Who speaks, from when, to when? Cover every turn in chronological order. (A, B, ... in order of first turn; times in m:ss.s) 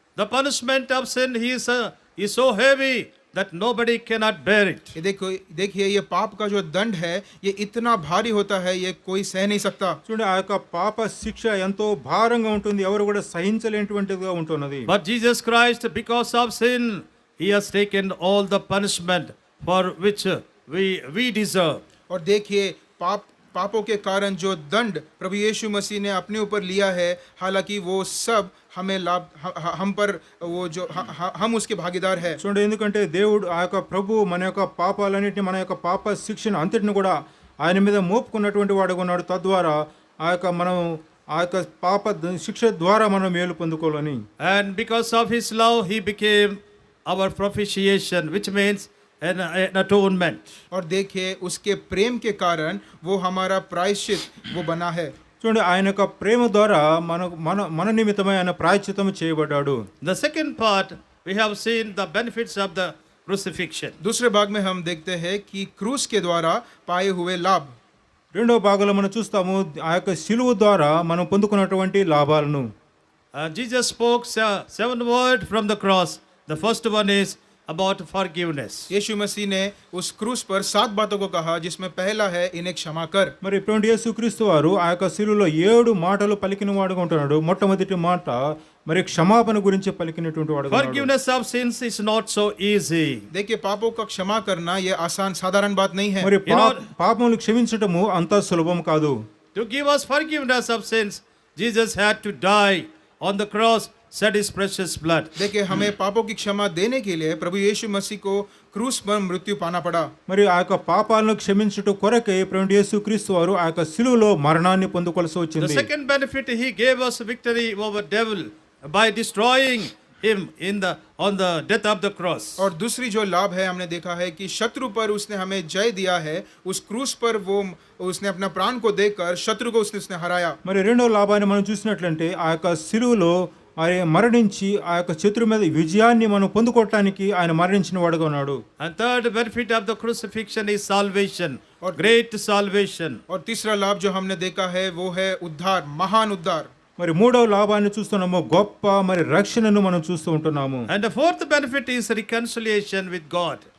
0:00.2-0:04.9 A
0:05.0-0:10.0 B
0:10.1-0:14.9 C
0:14.9-0:21.8 A
0:22.1-0:32.4 B
0:32.4-0:44.2 C
0:44.4-0:50.6 A
0:50.7-0:55.1 B
0:55.4-0:59.9 C
1:00.0-1:04.0 A
1:04.0-1:07.8 B
1:08.3-1:12.7 C
1:13.3-1:18.9 A
1:18.9-1:23.3 B
1:23.4-1:31.1 C
1:30.7-1:33.3 A
1:33.3-1:36.3 B
1:36.2-1:39.2 C
1:36.4-1:36.9 A
1:39.6-1:45.4 A
1:45.4-1:50.1 B
1:50.3-1:55.9 C
1:55.6-2:02.6 A
2:02.6-2:10.6 B
2:10.6-2:18.6 C
2:18.8-2:23.2 A
2:21.8-2:22.1 B
2:23.3-2:26.7 B
2:27.0-2:30.9 C
2:30.9-2:33.6 A